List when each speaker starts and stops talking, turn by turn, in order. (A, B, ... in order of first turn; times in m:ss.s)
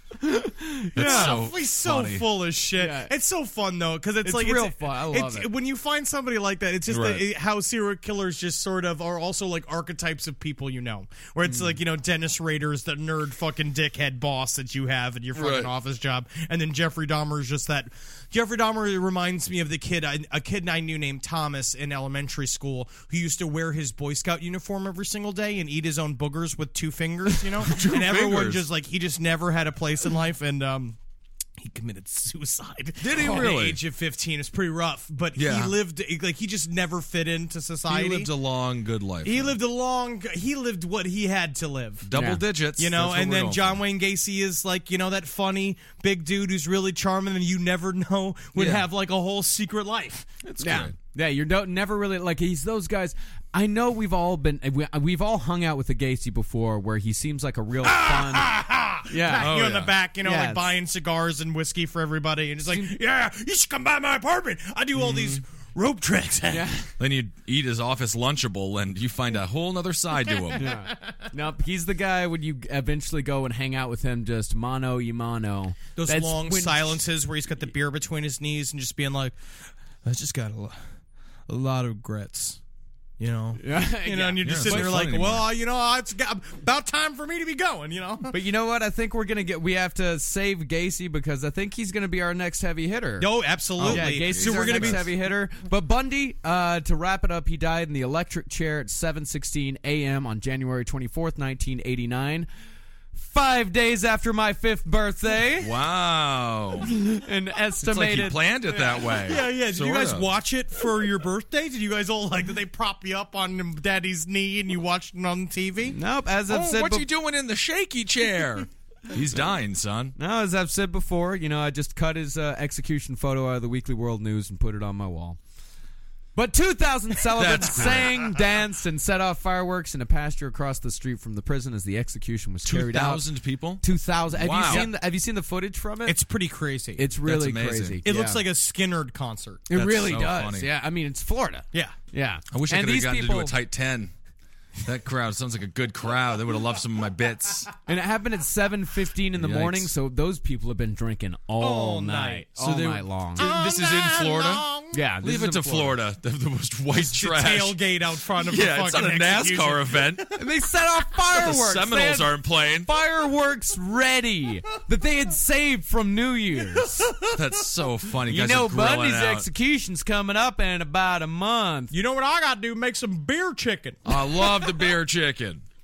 0:00.2-0:01.4 A
0:00.9-0:02.3 B
0:01.0-0:31.0 C
0:02.8-0:03.1 A
0:04.2-0:05.5 A
0:06.9-0:07.2 B
0:11.4-0:11.8 A
0:15.3-0:15.7 B
0:27.6-0:28.6 B
0:31.6-0:38.3 C
0:33.0-0:33.8 B
0:35.4-0:35.8 B
0:37.9-0:39.6 B
0:39.2-0:42.0 C
0:42.0-0:43.8 B
0:42.1-0:42.4 A
0:42.8-0:50.3 C
0:48.6-0:48.8 A
0:50.4-0:51.0 B
0:50.6-0:59.5 A
0:57.8-1:06.6 C
0:59.4-0:59.9 B
1:00.2-1:00.8 A
1:02.6-1:03.0 A
1:05.0-1:05.4 B
1:06.5-1:06.9 A
1:07.0-1:10.7 B
1:10.5-1:17.0 A
1:16.0-1:19.4 C
1:20.0-1:20.9 C
1:21.5-1:22.6 C
1:23.2-1:28.3 C
1:23.6-1:25.1 A
1:24.4-1:25.5 B
1:28.3-1:42.5 A
1:33.2-1:35.0 C
1:33.8-1:35.1 B
1:43.1-1:45.7 A
1:45.6-1:46.9 B
1:46.8-1:49.2 A
1:47.8-1:50.3 B
1:49.2-1:56.0 C
1:55.8-1:57.1 A
1:56.5-2:00.1 B
2:00.2-2:05.4 A
2:06.3-2:13.2 A
2:07.3-2:08.2 B
2:12.6-2:14.9 B
2:13.8-2:16.2 A
2:16.0-2:17.0 C
2:17.0-2:18.4 A
2:17.2-2:18.0 B
2:18.0-2:19.6 C
2:19.7-2:23.6 A
2:19.7-2:20.7 B
2:22.5-2:24.1 B
2:24.8-2:27.7 B
2:27.9-2:33.5 A
2:29.4-2:29.9 B
2:31.6-2:32.4 C
2:32.6-2:37.8 B
2:33.4-2:35.0 C
2:34.9-2:36.0 A
2:36.9-2:40.3 C
2:38.4-2:40.3 B
2:40.4-2:47.2 A
2:41.3-2:42.9 B
2:47.3-2:49.5 B
2:48.2-2:51.9 A
2:51.9-2:54.2 C
2:54.0-2:55.6 B